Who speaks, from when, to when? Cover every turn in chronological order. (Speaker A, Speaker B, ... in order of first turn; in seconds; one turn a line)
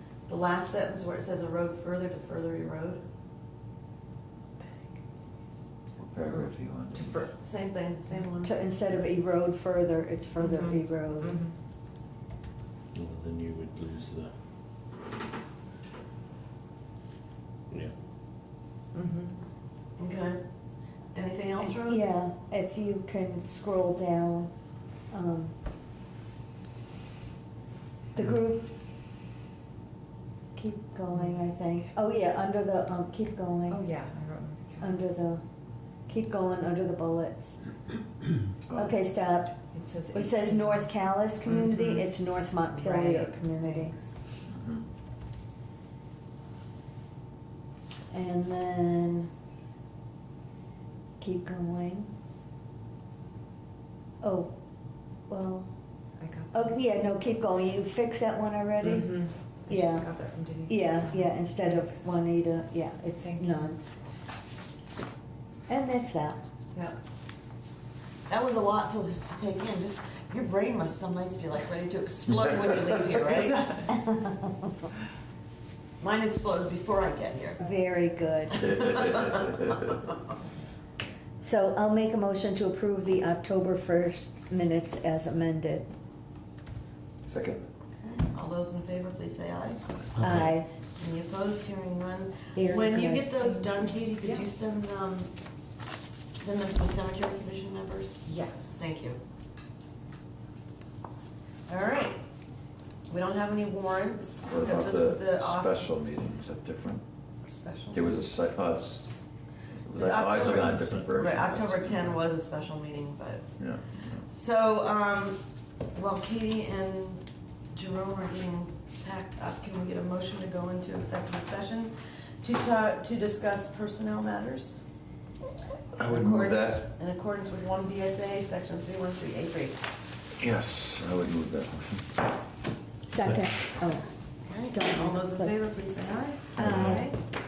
Speaker A: 0.3-3.0
Speaker B: 4.6-5.7
Speaker C: 6.0-7.3
Speaker B: 6.3-7.3
Speaker A: 7.4-8.6
Speaker D: 8.4-11.4
Speaker B: 10.4-11.6
Speaker E: 12.9-14.4
Speaker E: 17.7-17.9
Speaker B: 18.9-19.3
Speaker A: 20.0-20.4
Speaker A: 21.1-22.1
Speaker D: 21.6-24.5
Speaker D: 25.1-25.5
Speaker D: 28.1-28.7
Speaker D: 30.6-33.8
Speaker B: 31.1-31.9
Speaker B: 33.7-35.0
Speaker D: 34.8-35.4
Speaker D: 36.1-37.6
Speaker C: 38.7-39.0
Speaker D: 38.8-39.6
Speaker B: 39.7-42.1
Speaker D: 40.1-44.0
Speaker B: 42.7-44.1
Speaker C: 44.5-44.9
Speaker D: 48.1-49.3
Speaker D: 51.2-52.1
Speaker D: 54.2-54.5
Speaker D: 55.3-55.7
Speaker B: 56.2-56.8
Speaker D: 56.5-60.1
Speaker B: 58.8-62.0
Speaker D: 60.7-63.8
Speaker B: 63.2-63.7
Speaker D: 65.7-66.4
Speaker A: 68.3-73.9
Speaker B: 73.5-73.8
Speaker D: 73.9-74.7
Speaker A: 76.0-77.6
Speaker D: 77.6-78.9
Speaker A: 78.6-80.0
Speaker C: 78.8-79.8
Speaker D: 81.4-85.9
Speaker C: 87.3-87.6
Speaker A: 88.0-89.8
Speaker D: 90.2-90.7
Speaker A: 91.0-95.3
Speaker D: 92.5-93.3
Speaker B: 93.4-94.5
Speaker A: 96.4-99.2
Speaker B: 98.3-98.9
Speaker A: 101.7-102.2
Speaker A: 103.1-105.9
Speaker C: 104.5-107.0
Speaker A: 107.5-108.2
Speaker C: 107.9-109.1
Speaker C: 109.8-112.2
Speaker A: 109.9-115.4
Speaker E: 110.7-111.1
Speaker C: 113.6-114.2
Speaker A: 115.9-124.8
Speaker C: 126.0-126.9
Speaker A: 126.0-129.8
Speaker C: 130.4-132.1
Speaker D: 133.1-134.1
Speaker E: 133.2-133.5
Speaker A: 134.5-137.2
Speaker D: 134.7-135.6
Speaker D: 136.6-137.1